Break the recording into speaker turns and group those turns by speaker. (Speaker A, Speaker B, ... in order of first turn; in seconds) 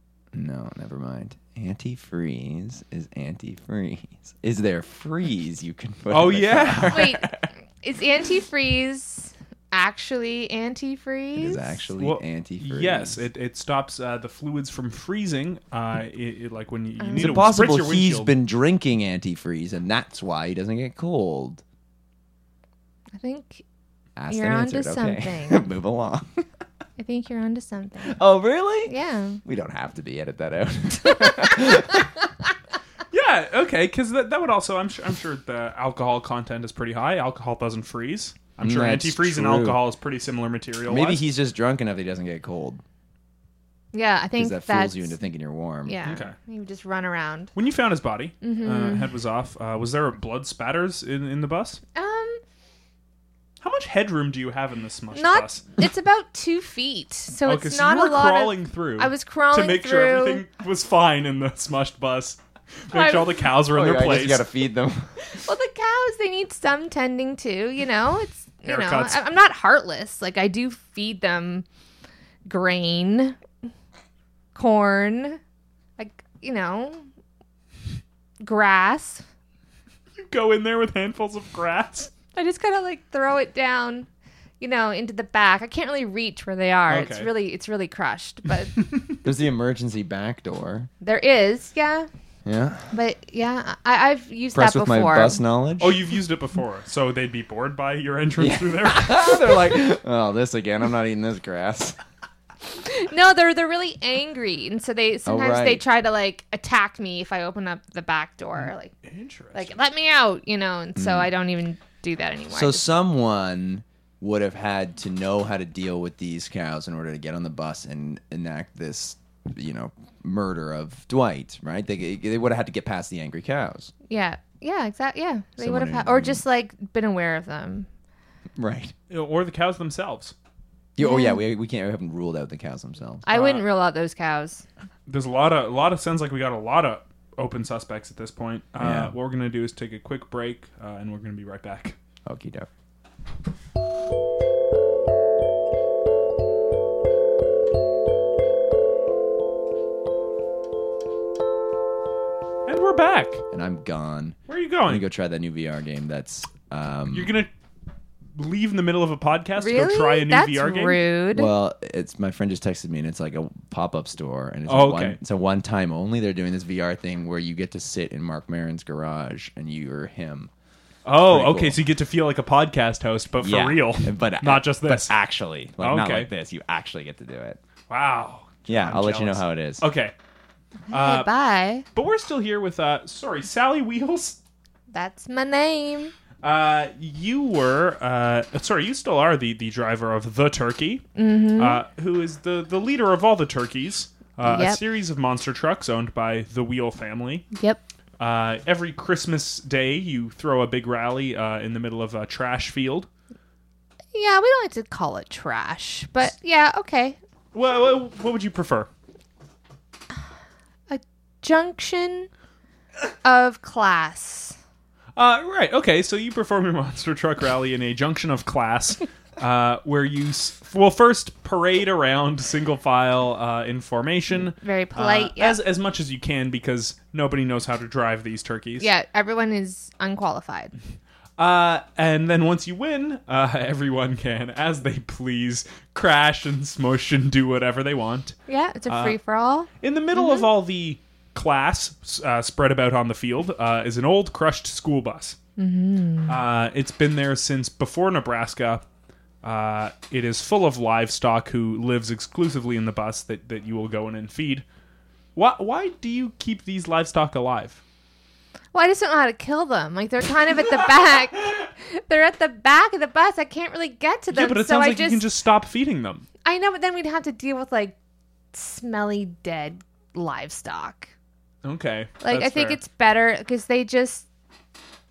Speaker A: 0.3-7.5, 11.3-13.2, 17.2-21.6, 24.1-26.4, 28.0-28.9, 29.4-32.1, 38.6-39.8, 40.9-42.8, 44.4-46.0, 63.6-65.1, 89.2-90.9, 92.4-92.9, 94.5-96.0, 98.4-102.0, 105.2-105.8, 111.0-111.3, 112.5-123.9, 125.6-126.4, 128.6-128.9, 130.9-133.2, 138.8-139.1, 142.2-142.7, 153.5-157.3, 161.3-170.5, 171.2-171.8, 173.4-177.6, 178.7-179.8
Speaker B: 6.1-7.0, 12.0-18.3, 33.1-41.2, 46.0-46.3, 47.5-51.8, 53.6-55.7, 57.4-64.5, 68.7-69.2, 80.2-82.1, 86.9-87.3, 95.8-99.4, 108.6-109.7, 129.1-130.3, 133.3-133.6, 135.1-141.9, 152.7-153.4, 154.5-155.1, 157.1-157.5, 158.3-161.0, 164.7-165.2, 171.0-175.1, 175.8-176.3, 177.9-180.1, 180.9-181.3, 181.9-184.4, 186.4-191.0, 191.6-197.4, 198.2-203.1, 207.5-208.9, 215.2-228.9, 231.4-238.3, 238.9-239.2, 239.8-245.4, 246.3-248.8, 249.4-254.6, 255.3-257.8, 264.3-266.2, 271.6-272.8
Speaker C: 6.9-11.8, 17.0-17.4, 23.2-23.6, 24.3-25.7, 27.0-28.2, 28.9-29.4, 43.9-45.1, 45.8-47.5, 48.4-49.1, 51.9-52.4, 55.1-60.4, 62.9-63.4, 65.2-71.6, 72.5-73.4, 74.5-75.4, 76.0-77.0, 78.4-79.2, 82.3-84.1, 84.6-88.8, 91.0-92.1, 92.9-95.4, 102.8-108.9, 109.5-112.8, 124.1-127.9, 131.0-131.4, 133.2-134.6, 159.6-161.5, 180.9-181.8, 184.9-186.1, 191.1-191.8, 194.4-194.8, 197.5-197.8, 204.1-207.2, 210.9-212.3, 213.2-214.6, 224.5-225.6, 228.8-230.7, 238.5-240.5, 245.6-246.4, 258.7-265.3, 266.4-267.9, 268.5-271.1, 272.2-274.2